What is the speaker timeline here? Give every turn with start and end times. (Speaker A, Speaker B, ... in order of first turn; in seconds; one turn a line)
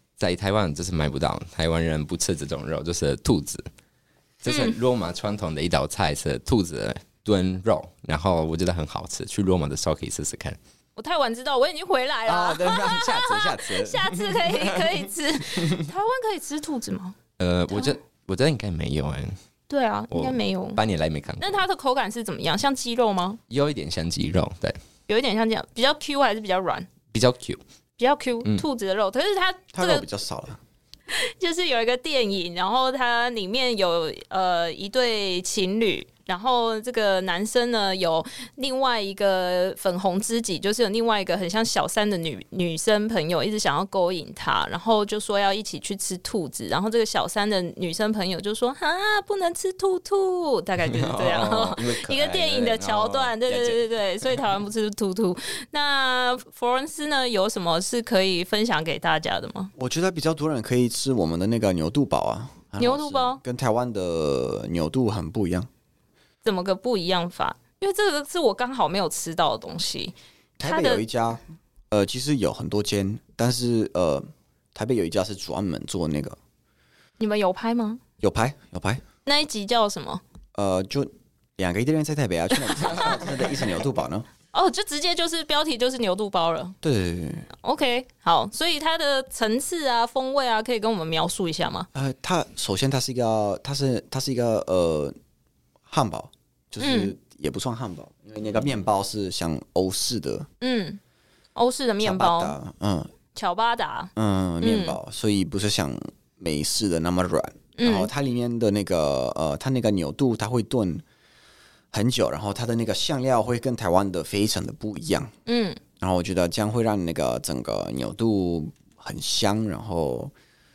Speaker A: 0.2-3.7
Speaker A: 4.4-10.6
Speaker B: 4.5-4.8
Speaker B: 11.0-17.2
Speaker C: 12.3-14.8
Speaker A: 17.4-19.4
Speaker B: 19.7-20.8
Speaker A: 20.1-21.6
Speaker B: 21.4-23.4
Speaker A: 23.5-24.8
Speaker B: 25.1-26.9
Speaker A: 27.1-27.6
Speaker B: 28.0-30.1
Speaker C: 29.7-30.6
Speaker B: 31.1-59.7
Speaker A: 50.9-53.8
Speaker C: 59.8-65.7
Speaker B: 62.8-63.4
Speaker B: 66.4-71.0
Speaker C: 70.6-76.4
Speaker B: 77.2-78.0
Speaker C: 78.2-79.0
Speaker B: 79.3-80.2
Speaker C: 80.5-84.2
Speaker B: 84.5-86.8
Speaker C: 86.8-87.5
Speaker B: 87.5-91.9
Speaker C: 91.9-95.1
Speaker C: 95.9-100.5
Speaker B: 96.8-97.1
Speaker B: 100.6-101.0
Speaker B: 101.5-102.6
Speaker C: 102.0-103.1
Speaker B: 103.3-105.0
Speaker C: 104.2-111.0
Speaker B: 107.8-108.1
Speaker C: 111.9-115.3
Speaker B: 115.5-115.8
Speaker C: 116.0-120.3